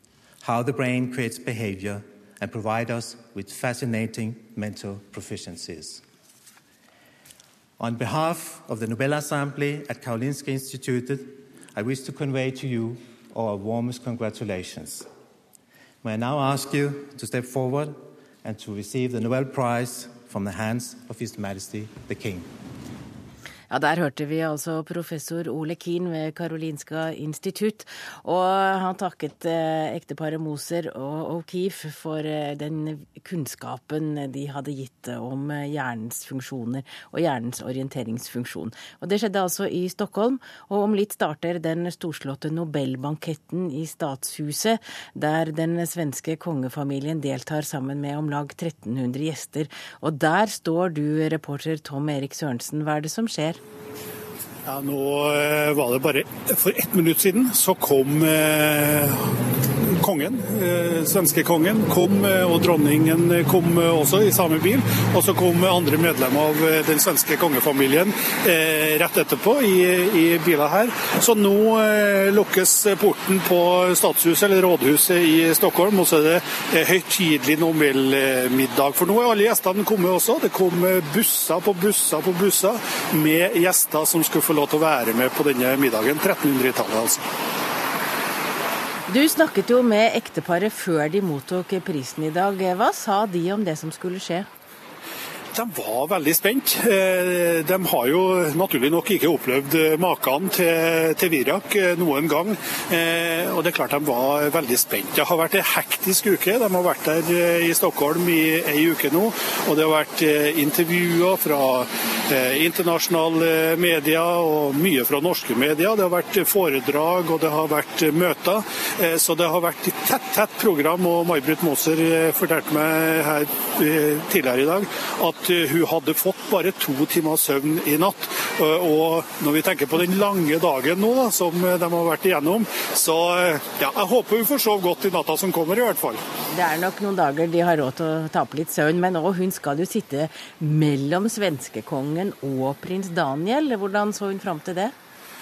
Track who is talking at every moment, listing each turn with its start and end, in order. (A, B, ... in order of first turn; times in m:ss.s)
0:00.4-0:06.0 A
0:07.8-0:15.1 A
0:16.0-0:22.5 A
0:23.7-0:53.6 B
0:54.7-0:59.3 C
0:59.9-1:27.3 C
1:29.1-1:34.5 B
1:35.5-2:16.2 C
2:16.5-2:24.9 B